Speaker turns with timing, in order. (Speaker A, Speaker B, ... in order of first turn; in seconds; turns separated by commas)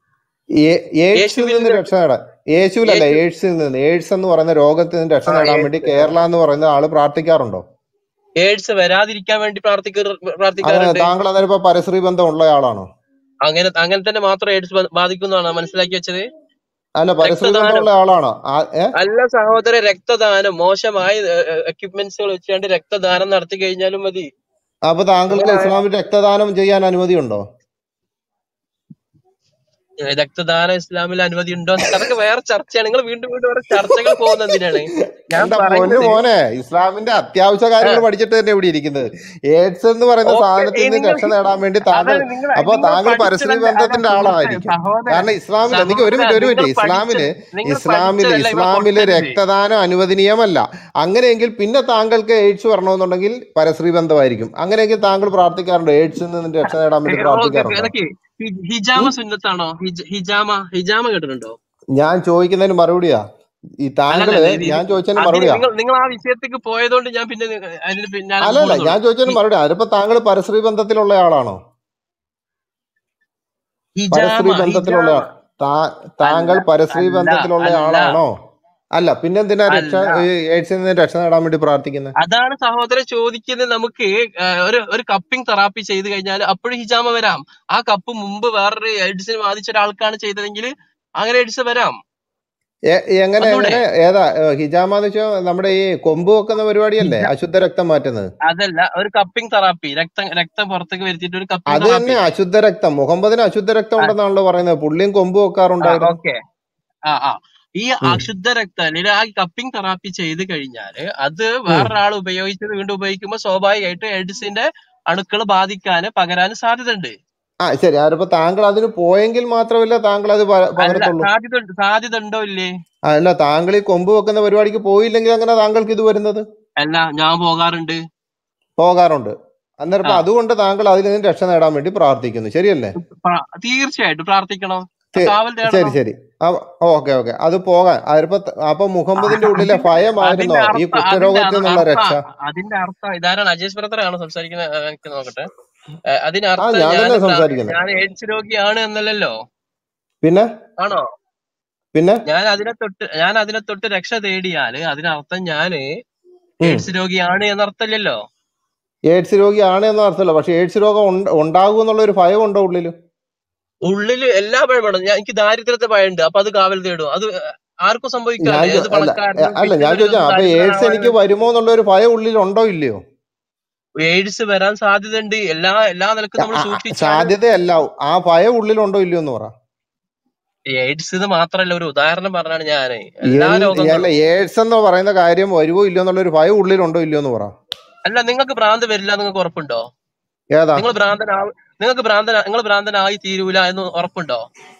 Speaker A: 0.6-7.6, Speaker B: 1.1-1.8, Speaker B: 2.9-3.2, Speaker B: 5.3-6.1, Speaker B: 8.4-11.1, Speaker A: 10.6-12.9, Speaker B: 13.4-16.2, Speaker A: 17.0-18.9, Speaker B: 17.2-17.9, Speaker B: 19.0-24.3, Speaker A: 24.9-27.4, Speaker B: 25.3-25.7, Speaker B: 30.1-36.2, Speaker A: 33.9-57.9, Speaker B: 40.3-41.3, Speaker B: 41.9-49.4, Speaker B: 57.1-61.5, Speaker A: 62.0-63.2, Speaker A: 63.8-65.6, Speaker B: 64.1-69.4, Speaker A: 68.4-71.6, Speaker B: 74.0-75.2, Speaker A: 74.1-78.3, Speaker B: 76.2-78.2, Speaker A: 79.0-82.1, Speaker B: 79.7-80.1, Speaker B: 82.2-92.0, Speaker A: 92.9-98.3, Speaker B: 93.4-93.8, Speaker B: 97.0-97.3, Speaker B: 98.5-102.2, Speaker A: 101.7-106.2, Speaker B: 105.8-106.4, Speaker B: 107.1-117.1, Speaker A: 117.6-121.3, Speaker B: 120.8-122.7, Speaker A: 123.1-126.5, Speaker B: 126.8-128.0, Speaker A: 128.8-132.9, Speaker B: 133.0-136.0, Speaker A: 135.2-142.2, Speaker B: 139.2-145.5, Speaker B: 146.1-149.3, Speaker A: 146.6-147.7, Speaker B: 150.8-151.0, Speaker A: 151.9-152.2, Speaker B: 152.3-155.8, Speaker B: 156.6-158.2, Speaker A: 159.1-162.9, Speaker B: 163.9-167.3, Speaker B: 167.8-171.1, Speaker A: 168.4-173.0, Speaker B: 174.0-177.3, Speaker A: 176.4-179.5, Speaker B: 180.7-184.1, Speaker A: 183.3-187.5, Speaker B: 188.1-189.8, Speaker A: 190.5-190.8, Speaker B: 190.8-194.4